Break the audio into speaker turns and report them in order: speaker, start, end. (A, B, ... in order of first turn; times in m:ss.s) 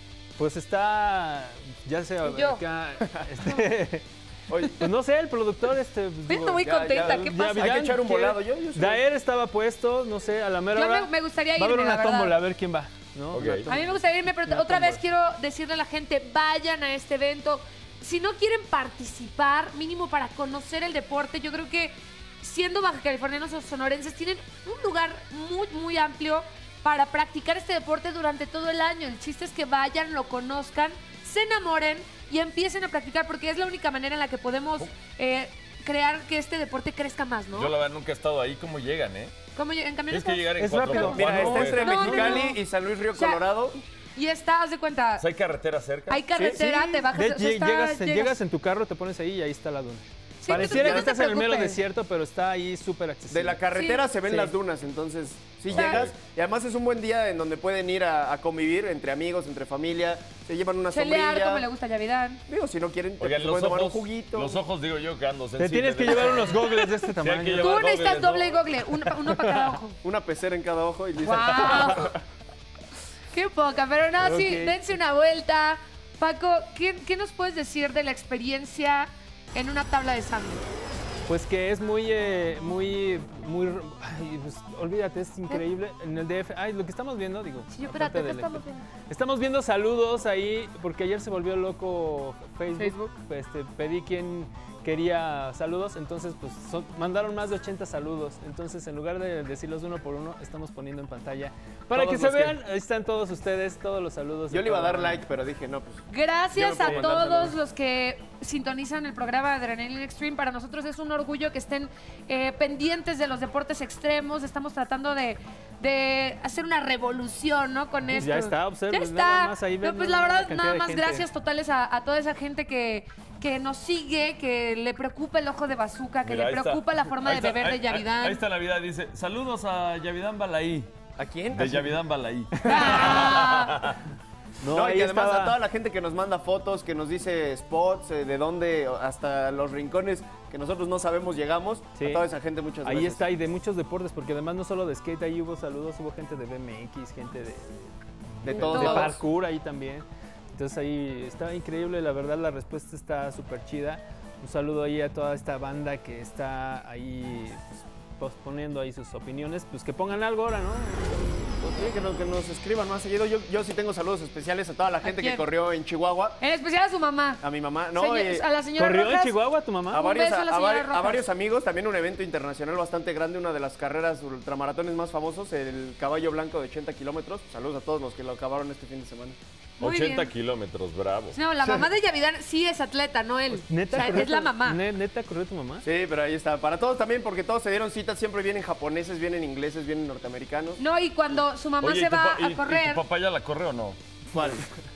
0:00.4-0:04.0 A
0:02.2-0:02.6 B
0:04.5-0:04.7 C
0:04.7-0:15.0 A
0:06.3-0:07.7 B
0:06.6-0:09.0 C
0:10.7-0:12.4 B
0:13.3-0:13.7 D
0:13.7-0:37.7 B
0:37.6-0:39.4 D
0:39.5-0:40.5 B
0:40.1-0:41.9 D
0:40.6-0:42.5 A
0:40.9-0:43.8 C
0:41.8-0:42.6 B
0:43.1-0:43.4 B
0:44.2-0:45.3 B
0:45.2-0:46.2 D
0:46.1-0:48.4 B
0:46.4-0:53.6 A
0:46.4-0:46.6 C
0:50.4-0:51.8 B
0:50.5-0:51.1 C
0:53.3-1:01.6 C
0:53.7-0:54.1 B
0:54.3-0:54.6 A
0:55.7-0:56.1 D
0:55.8-0:56.0 B
1:00.9-1:02.4 B
1:02.5-1:04.6 C
1:03.2-1:08.7 D
1:05.6-1:07.8 A
1:07.5-1:10.0 B
1:09.1-1:09.7 A
1:10.0-1:12.2 C
1:11.2-1:12.1 B
1:11.6-1:12.1 D
1:13.3-1:20.7 B
1:14.2-1:14.8 A
1:21.3-1:45.2 A
1:27.7-1:28.9 B
1:32.8-1:33.1 B
1:41.9-1:42.5 D
1:42.0-1:42.4 C
1:44.5-1:46.0 C
1:46.1-2:08.4 B
1:46.6-1:47.6 C
1:58.1-2:01.3 A
2:06.2-2:10.9 D
2:11.2-2:12.0 C
2:11.6-2:14.0 D
2:12.6-2:12.9 A
2:12.6-2:13.9 B
2:12.8-2:13.1 C
2:14.6-2:15.6 A
2:14.7-2:23.3 C
2:22.0-2:22.2 A
2:22.8-2:41.8 A
2:28.4-2:29.2 C
2:28.6-2:29.1 B
2:41.6-2:46.4 C
2:45.0-2:45.5 B
2:46.4-2:47.4 B
2:47.4-2:48.4 C
2:48.0-2:49.4 B
2:48.8-2:50.1 A
2:49.9-2:59.4 C
2:50.0-2:51.2 B
2:59.8-3:00.3 B
2:59.8-3:01.4 D
3:01.3-3:04.8 B
3:01.6-3:01.9 C
3:03.5-3:05.9 A
3:05.8-3:10.8 C
3:10.8-3:13.0 B
3:11.8-3:14.0 D
3:14.3-3:14.6 C